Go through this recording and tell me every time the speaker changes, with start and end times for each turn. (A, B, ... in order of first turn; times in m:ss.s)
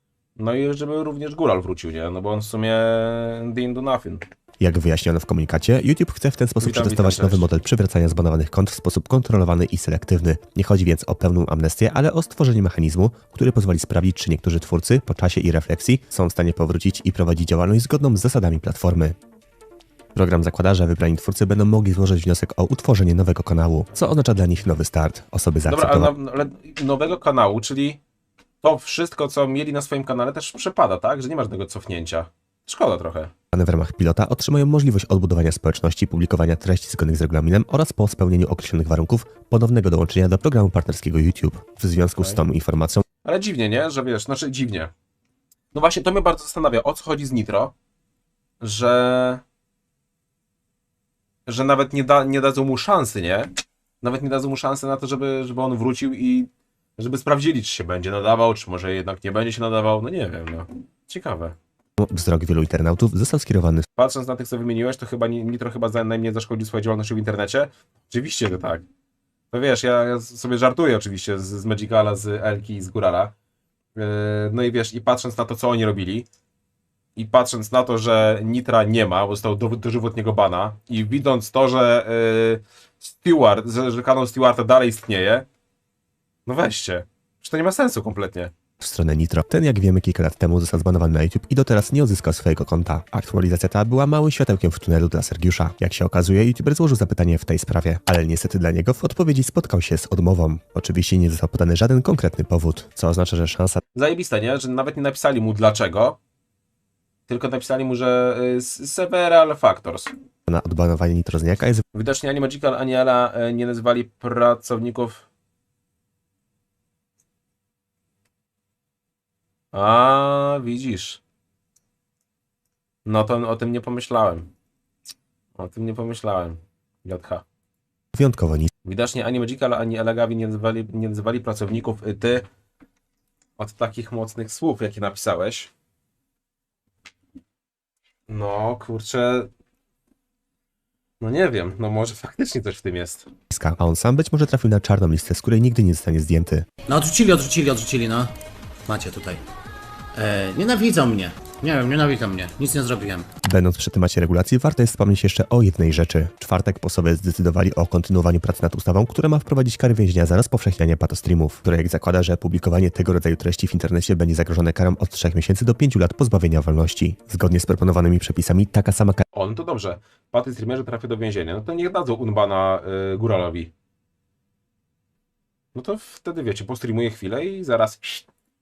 0:00.4-0:04.2 A
0:04.6-0:19.2 B
0:06.6-0:07.5 A
0:20.1-0:26.1 B
0:25.6-0:28.0 A
0:28.6-0:33.3 A
0:33.5-0:43.0 B
0:43.2-0:44.9 A
0:45.7-0:47.7 A
0:48.6-0:49.4 A
0:51.5-1:01.6 A
1:02.0-1:03.8 B
1:04.0-1:08.8 A
1:09.5-1:13.3 A
1:14.0-1:16.3 A
1:17.2-1:25.4 A
1:26.5-1:28.5 A
1:28.8-1:43.8 B
1:43.9-1:46.2 A
1:47.3-1:50.1 A
1:50.5-1:51.8 B
1:51.9-1:55.2 A
1:59.7-2:01.2 A
2:03.0-2:04.5 A
2:05.6-2:07.4 A
2:08.1-2:08.7 B
2:08.8-2:12.4 A
2:13.6-2:15.7 A
2:18.3-2:19.5 A
2:21.2-2:23.3 A
2:23.5-2:26.7 B
2:26.9-2:28.3 C
2:28.8-2:29.4 C
2:30.1-2:33.3 C
2:33.4-2:49.2 B
2:49.3-2:53.7 A
2:55.7-2:58.2 A